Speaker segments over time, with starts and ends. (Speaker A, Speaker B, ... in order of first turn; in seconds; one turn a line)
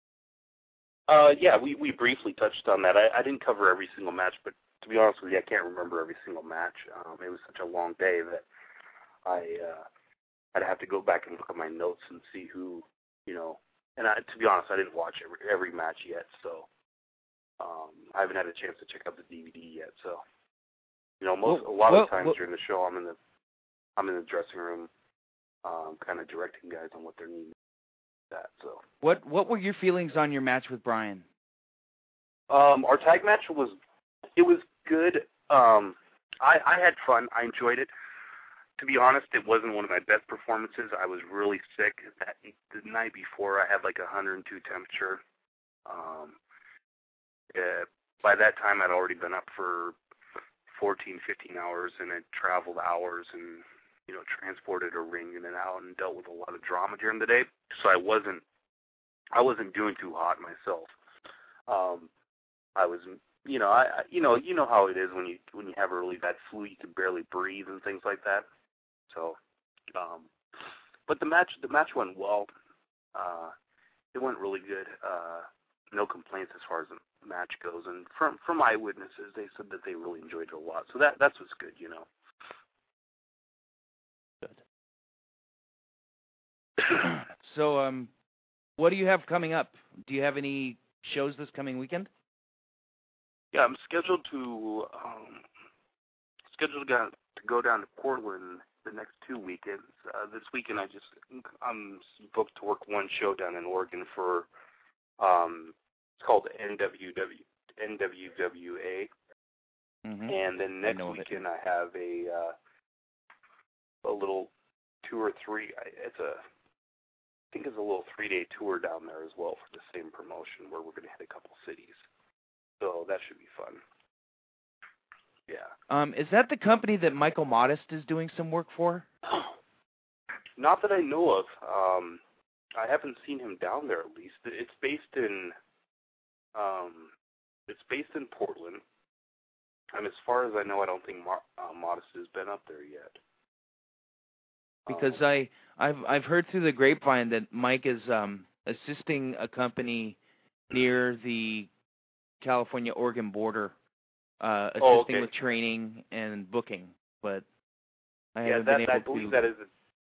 Speaker A: 1.1-8.4
Speaker A: 9.2-9.8
Speaker A: 10.5-16.7
Speaker A: 17.6-20.2
Speaker A: 21.2-23.2
Speaker B: 21.5-22.4
Speaker A: 24.0-24.9
Speaker A: 25.6-27.6
Speaker A: 28.3-28.8
Speaker B: 29.0-31.2
Speaker A: 32.5-33.8
Speaker A: 34.3-37.9
Speaker A: 38.8-45.2
Speaker A: 45.9-46.4
Speaker A: 47.5-50.0
Speaker A: 50.7-58.4
Speaker A: 59.3-60.9
Speaker A: 61.7-62.1
Speaker A: 62.8-68.5
Speaker A: 69.1-69.4
Speaker A: 69.9-70.3
Speaker A: 71.1-72.5
Speaker A: 73.2-73.5
Speaker A: 74.1-82.1
Speaker B: 87.0-88.1
Speaker B: 88.8-92.1
Speaker A: 93.5-95.4
Speaker A: 96.5-104.5
Speaker A: 105.2-109.1
Speaker B: 110.0-111.4
Speaker A: 110.3-112.5
Speaker A: 114.0-114.5
Speaker A: 115.0-116.4
Speaker A: 117.5-122.0
Speaker A: 122.8-123.8
Speaker B: 125.9-129.1
Speaker A: 130.6-132.2
Speaker A: 132.8-135.6
Speaker A: 136.6-137.1
Speaker A: 137.7-138.8
Speaker A: 139.9-143.2
Speaker B: 144.9-150.2
Speaker A: 144.9-145.2
Speaker B: 150.7-151.7
Speaker B: 152.4-153.7
Speaker B: 154.4-157.4
Speaker A: 154.8-155.3
Speaker B: 158.4-159.4
Speaker A: 158.4-159.7